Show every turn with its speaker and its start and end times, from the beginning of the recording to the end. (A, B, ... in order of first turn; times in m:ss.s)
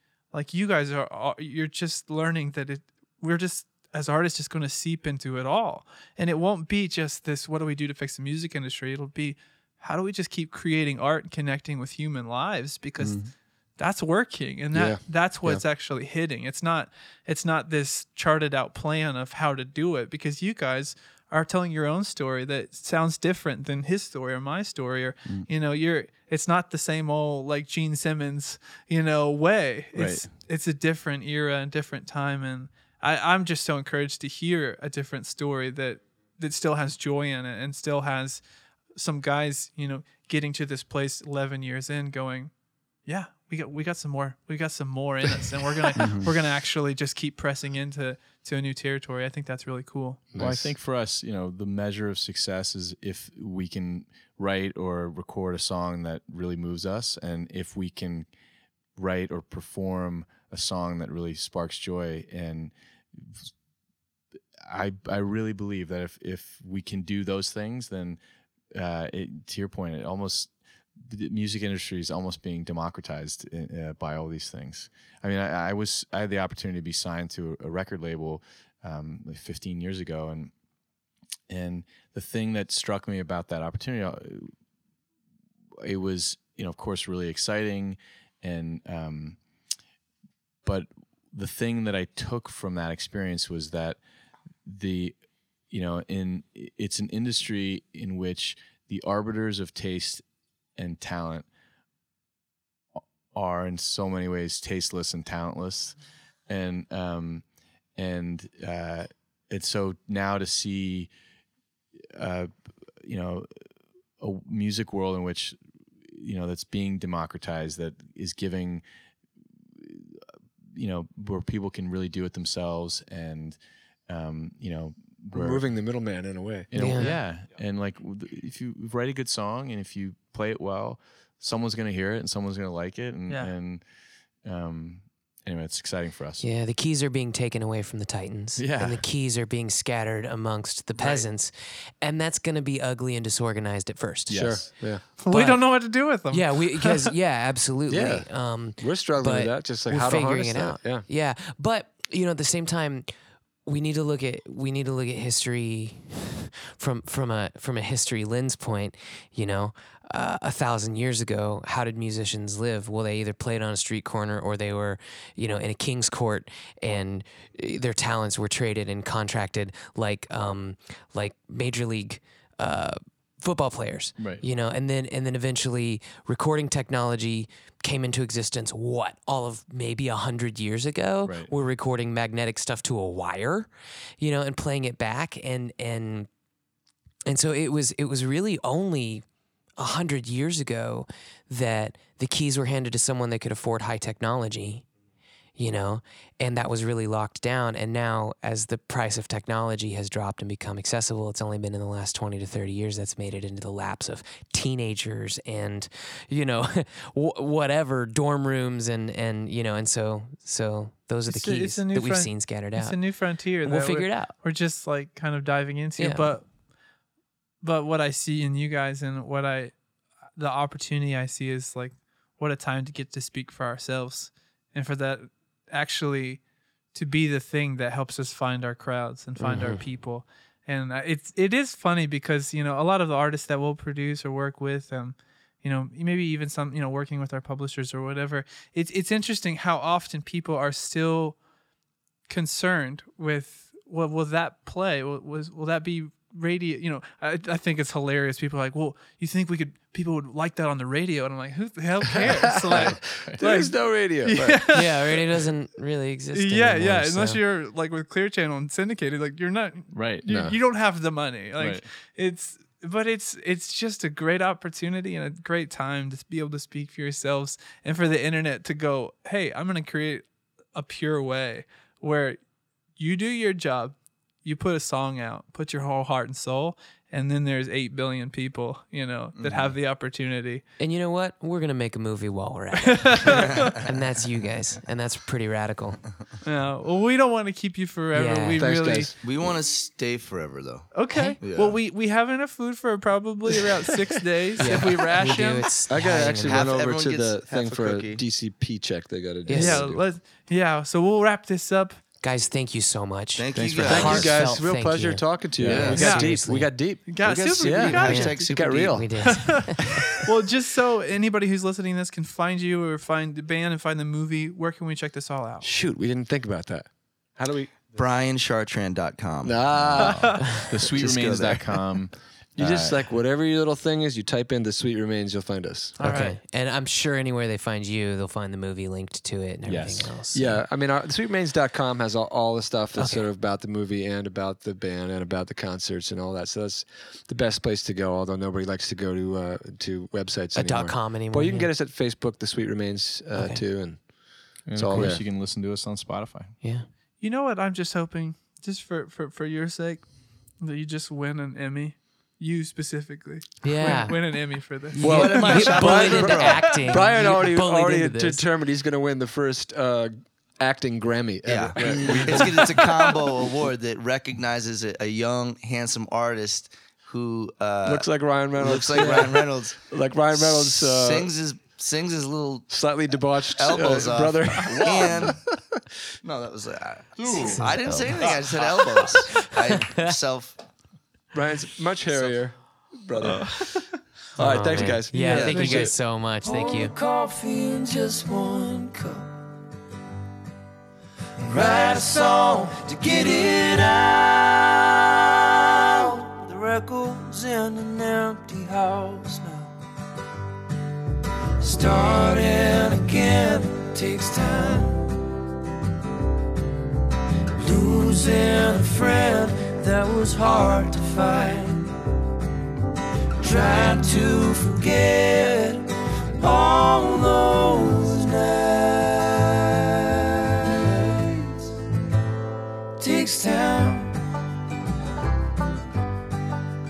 0:00.3-0:38.4 A
0:14.7-0:15.6 B
0:29.9-0:30.2 C
0:38.9-0:42.5 A
0:43.0-0:50.3 A
0:46.0-0:46.3 D
0:50.3-0:50.7 B
0:50.4-0:58.3 C
0:59.0-1:03.5 C
1:04.6-1:08.2 C
1:08.7-1:10.5 C
1:11.0-1:20.5 C
1:21.5-1:24.5 C
1:25.8-1:29.4 C
1:30.6-1:34.0 C
1:34.6-1:35.1 C
1:35.7-1:40.2 C
1:40.8-1:41.4 C
1:43.3-1:46.0 C
1:46.5-1:47.4 C
1:48.0-1:51.1 C
1:52.1-1:52.5 C
1:53.0-1:53.5 C
1:54.2-1:55.6 C
1:56.1-1:58.8 C
1:59.8-2:00.2 C
2:00.7-2:03.6 C
2:04.1-2:05.6 C
2:05.3-2:06.7 B
2:06.7-2:13.8 C
2:06.7-2:07.1 E
2:14.4-2:16.4 C
2:16.4-2:24.6 E
2:18.6-2:19.0 C
2:21.0-2:21.2 A
2:24.3-2:24.6 C
2:24.3-2:25.0 B
2:25.2-2:27.1 A
2:25.3-2:33.1 E
2:27.9-2:31.0 B
2:33.6-3:06.3 E
2:54.2-2:54.4 C
3:01.2-3:01.5 C
3:07.3-3:09.2 E
3:09.8-3:14.8 E
3:15.6-3:33.0 E
3:31.2-3:36.4 A
3:33.6-3:34.3 E
3:36.0-3:36.4 E
3:37.6-3:39.7 A
3:40.4-3:46.4 A
3:46.9-4:01.4 A
3:49.4-3:49.8 E
4:02.3-4:15.1 A
4:12.3-4:14.7 B
4:12.7-4:13.4 C
4:14.7-4:17.4 E
4:16.3-4:32.4 A
4:19.9-4:20.2 C
4:20.3-4:20.5 B
4:21.6-4:21.8 C
4:33.0-4:40.6 A
4:39.4-4:39.6 D
4:40.8-4:46.0 E
4:42.8-4:43.7 A
4:43.3-4:43.7 D
4:46.4-4:49.1 A
4:48.1-4:48.7 E
4:48.6-4:49.5 B
4:49.2-4:51.8 D
4:50.9-4:55.7 A
4:51.1-4:51.4 E
4:54.6-4:56.7 E
4:55.9-5:00.0 B
4:56.4-4:58.2 D
4:59.5-4:59.9 E
4:59.5-5:02.0 A
5:02.2-5:06.7 E
5:03.4-5:04.4 D
5:03.5-5:04.3 C
5:03.8-5:09.1 B
5:05.6-5:06.0 C
5:05.6-5:06.0 D
5:06.0-5:06.3 A
5:07.1-5:08.5 A
5:07.6-5:09.0 D
5:08.0-5:09.8 E
5:09.2-5:15.6 A
5:15.6-5:16.8 B
5:17.4-5:17.7 B
5:17.9-5:20.2 D
5:19.4-5:20.4 B
5:19.8-5:23.0 C
5:20.0-5:20.6 A
5:20.8-5:21.7 D
5:22.6-5:26.1 B
5:26.0-5:26.4 A
5:26.0-5:30.6 E
5:29.6-5:30.1 C
5:30.3-5:44.0 B
5:33.0-5:33.3 E
5:40.5-5:41.7 E
5:43.3-5:43.6 E
5:44.7-5:46.5 C
5:44.7-5:45.2 B
5:46.6-5:46.9 E
5:47.2-5:50.0 A
5:50.6-5:55.7 A
5:53.6-5:54.4 E
5:54.9-5:58.4 E
5:55.0-5:56.7 D
5:55.0-6:03.2 B
6:01.5-6:09.8 D
6:02.0-6:02.4 C
6:07.8-6:11.3 B
6:10.3-6:12.7 D
6:12.7-6:15.4 B
6:13.4-6:15.4 D
6:14.6-6:15.4 C
6:16.2-6:20.6 D
6:17.2-6:17.6 C
6:17.4-6:18.4 E
6:18.2-6:19.1 C
6:19.3-6:20.0 E
6:21.3-6:23.8 B
6:23.2-6:23.9 A
6:24.4-6:25.9 B
6:24.4-6:26.9 E
6:25.1-6:25.9 A
6:25.3-6:25.8 D
6:26.4-6:29.3 F
6:31.4-6:39.7 F
6:41.6-6:45.1 F
6:47.6-6:51.9 F
6:53.4-7:01.7 F
7:03.0-7:04.2 F